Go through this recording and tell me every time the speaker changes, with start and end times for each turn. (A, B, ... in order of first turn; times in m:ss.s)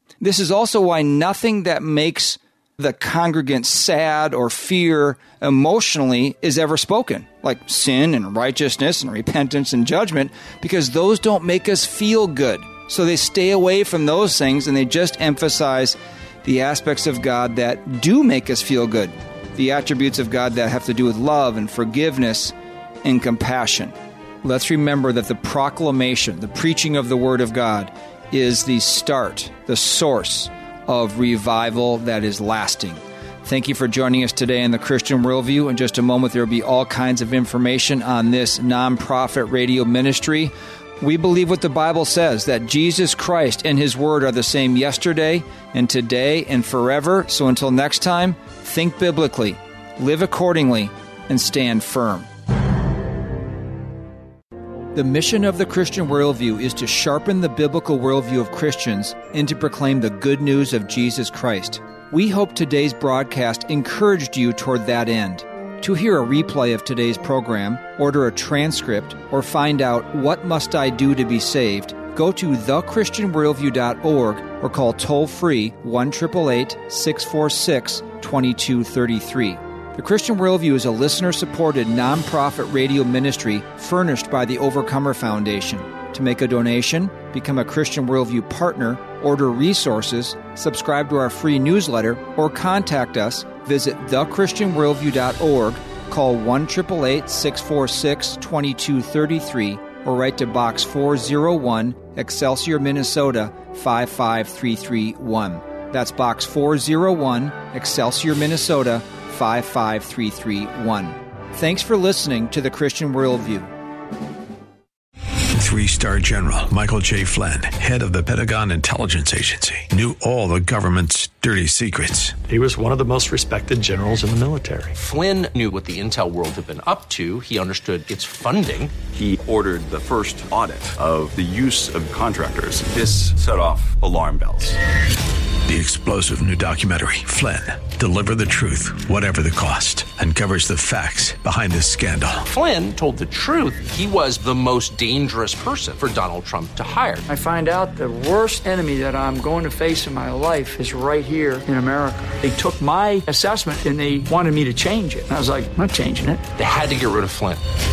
0:00.2-0:52.3 A
0:54.9-1:53.7 A
1:55.6-2:02.4 B
2:02.5-2:05.0 C
2:05.0-2:09.0 D
2:09.1-2:14.8 E
2:15.6-2:22.5 B
2:22.5-2:27.3 D
2:27.3-2:36.4 F
2:36.6-2:37.6 D